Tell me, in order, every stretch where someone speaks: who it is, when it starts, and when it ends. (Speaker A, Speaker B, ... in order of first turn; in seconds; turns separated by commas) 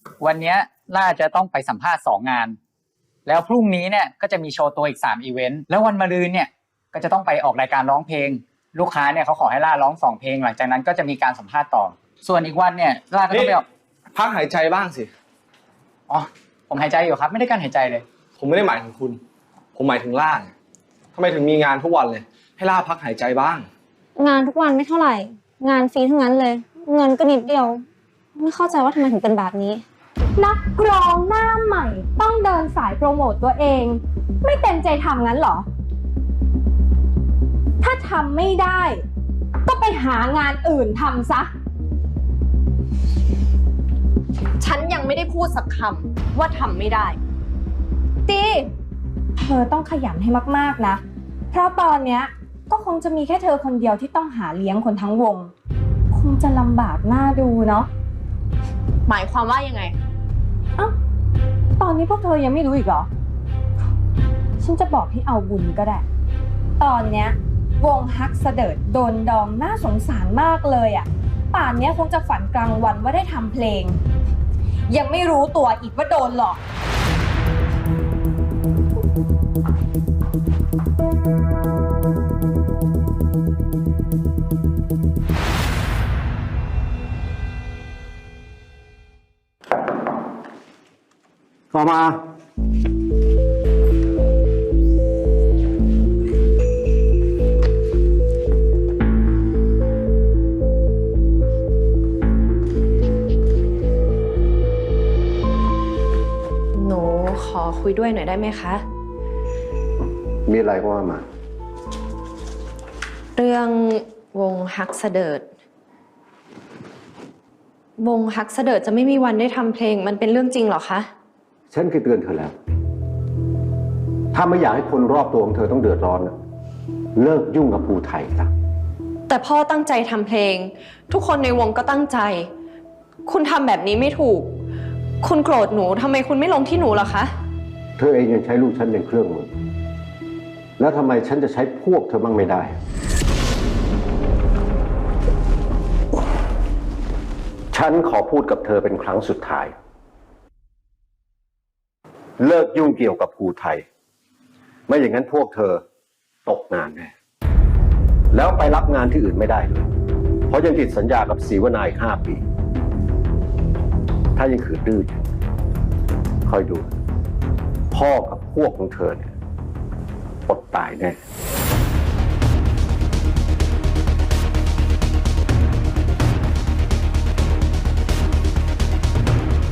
Speaker A: 0.2-2.6, Speaker A: 3.2-13.6, Speaker B: 13.3-13.6, Speaker B: 14.1-15.1, Speaker A: 16.1-18.0, Speaker B: 18.4-19.2, Speaker B: 19.7-20.5, Speaker B: 21.1-23.7, Speaker C: 24.2-27.8, Speaker C: 28.4-29.8, Speaker D: 30.4-35.6, Speaker D: 37.8-39.0, Speaker D: 39.6-41.5, Speaker E: 44.7-47.1, Speaker D: 49.4-55.5, Speaker D: 56.1-57.9, Speaker E: 59.1-59.9, Speaker D: 61.8-63.1, Speaker D: 64.6-66.0, Speaker D: 66.8-74.0, Speaker D: 74.9-76.6, Speaker F: 91.7-92.3, Speaker E: 106.7-108.8, Speaker F: 110.5-111.2, Speaker E: 113.4-115.5, Speaker E: 118.0-121.1, Speaker F: 121.7-122.5, Speaker F: 124.3-126.3, Speaker F: 127.2-128.5, Speaker E: 129.3-132.5, Speaker E: 133.2-134.6, Speaker E: 135.2-137.3, Speaker F: 138.0-139.5, Speaker F: 140.8-142.8, Speaker F: 147.7-149.7, Speaker F: 152.4-153.8, Speaker F: 154.9-155.8, Speaker F: 156.4-157.1, Speaker F: 158.3-159.9, Speaker F: 160.5-162.4, Speaker F: 164.3-165.2, Speaker F: 166.4-166.9, Speaker F: 167.9-169.3, Speaker F: 170.5-171.2